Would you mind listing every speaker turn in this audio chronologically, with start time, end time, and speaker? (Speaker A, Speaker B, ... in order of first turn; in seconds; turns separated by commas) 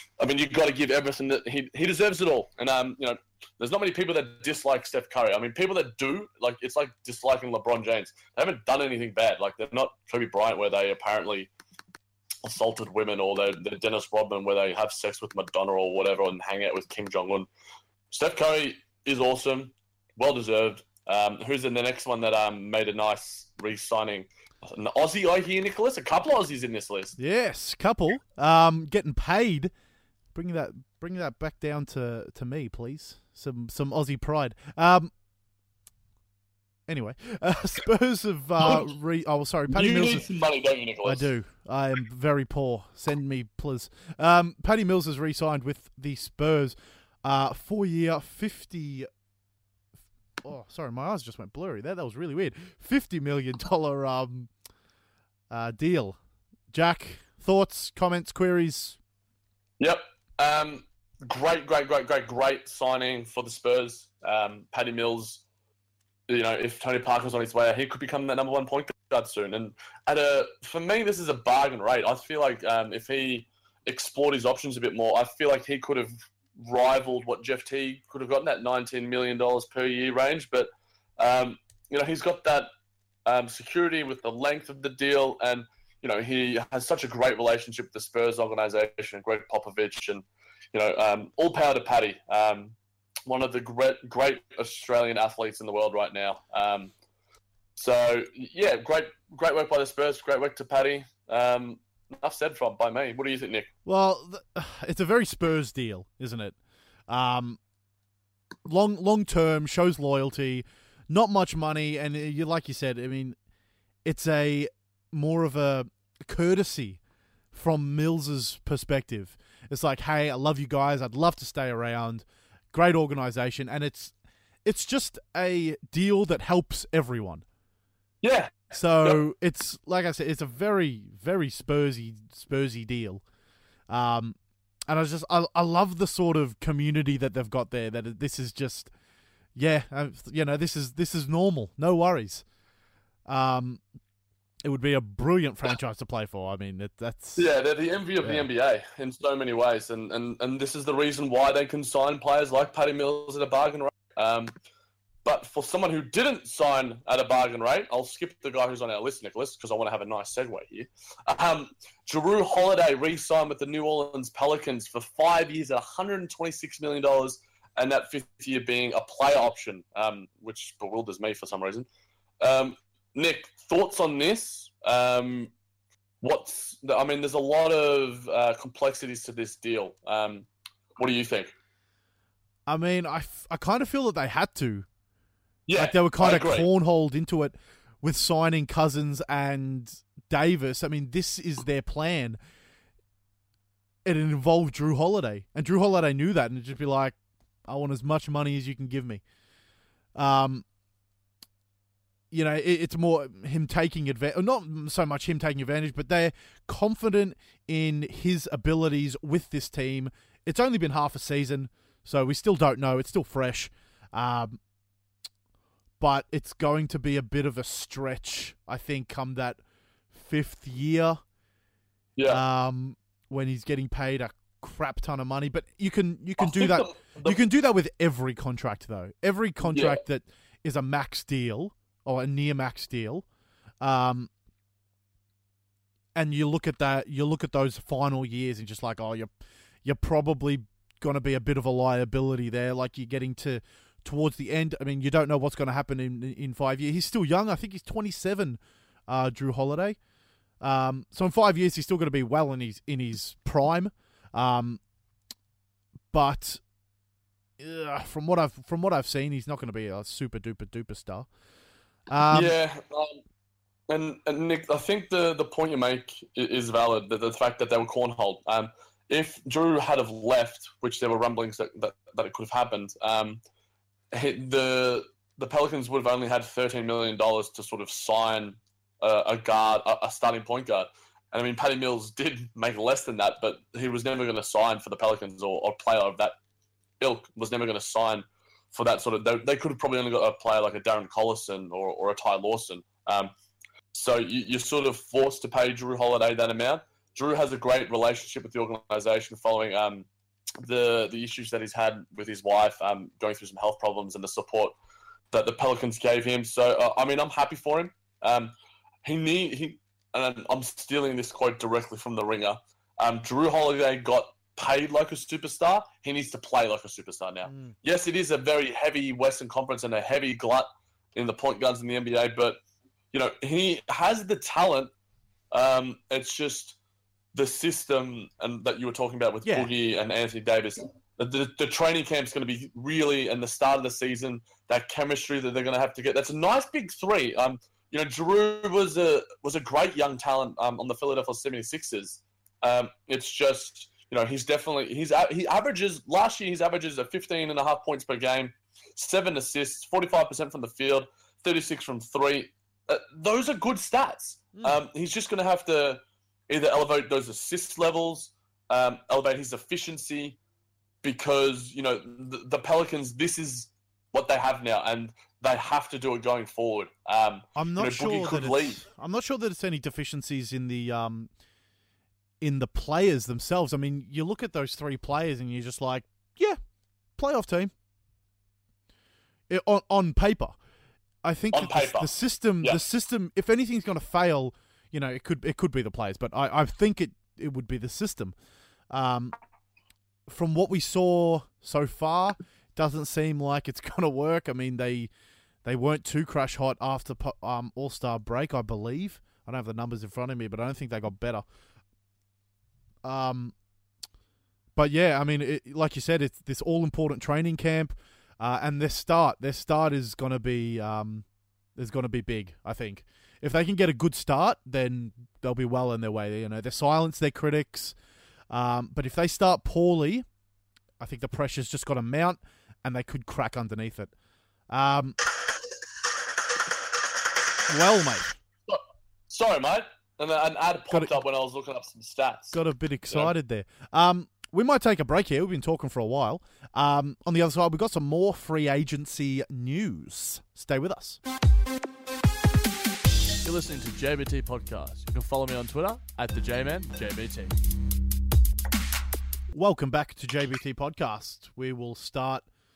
Speaker A: 0.2-11.5, Speaker A: 12.4-17.5, Speaker A: 18.1-27.1, Speaker B: 27.2-29.7, Speaker B: 30.3-35.1, Speaker B: 36.9-40.3, Speaker A: 38.6-38.9, Speaker A: 39.7-41.3, Speaker B: 41.0-49.1, Speaker B: 50.4-54.5, Speaker B: 55.5-56.2, Speaker B: 56.7-59.0, Speaker A: 59.8-65.4, Speaker A: 66.3-82.7, Speaker A: 83.3-92.8, Speaker A: 93.3-96.9, Speaker A: 97.8-103.7, Speaker B: 103.9-106.6, Speaker B: 107.1-107.6, Speaker B: 108.7-113.4, Speaker B: 114.0-117.0, Speaker B: 117.5-124.1, Speaker B: 124.6-127.5, Speaker A: 128.2-129.2, Speaker B: 128.7-133.2, Speaker B: 133.9-134.4, Speaker B: 134.9-138.9, Speaker B: 139.6-142.4, Speaker B: 143.3-143.8, Speaker B: 144.6-147.5, Speaker A: 147.4-154.5, Speaker A: 155.2-171.9, Speaker A: 172.4-175.5, Speaker A: 176.2-181.5, Speaker B: 182.7-184.9, Speaker A: 185.7-186.7, Speaker B: 185.8-192.4, Speaker B: 194.1-199.2, Speaker B: 200.2-200.7, Speaker B: 202.3-214.6, Speaker B: 216.0-219.6, Speaker B: 220.1-221.2, Speaker A: 222.2-222.4, Speaker B: 222.2-233.2, Speaker A: 226.4-227.4, Speaker A: 229.7-230.0, Speaker B: 233.8-234.3, Speaker B: 236.2-239.3, Speaker B: 239.8-250.0, Speaker B: 250.6-254.8, Speaker B: 256.1-256.6, Speaker B: 257.6-261.3, Speaker B: 262.1-262.6, Speaker A: 262.3-263.2, Speaker A: 263.9-273.4, Speaker A: 274.1-286.4, Speaker A: 287.0-293.3, Speaker A: 293.9-300.1, Speaker A: 300.6-304.8, Speaker A: 305.3-308.5, Speaker A: 309.0-322.6, Speaker B: 317.5-317.8, Speaker A: 323.1-324.9, Speaker A: 325.5-326.8, Speaker A: 327.3-360.4, Speaker B: 329.4-329.7, Speaker A: 361.0-368.8, Speaker B: 367.6-371.3, Speaker B: 372.4-376.6, Speaker B: 377.2-377.7, Speaker B: 379.5-380.6, Speaker B: 381.2-388.4, Speaker A: 381.5-382.8, Speaker B: 388.9-389.4, Speaker B: 390.3-395.1, Speaker B: 395.6-401.5, Speaker B: 403.0-403.5, Speaker B: 404.8-411.2, Speaker B: 411.8-418.0, Speaker B: 418.5-420.3, Speaker B: 421.0-424.1, Speaker B: 424.7-425.2, Speaker B: 427.7-428.4, Speaker A: 428.7-432.6, Speaker B: 432.5-441.2, Speaker C: 443.4-447.6, Speaker B: 449.5-452.5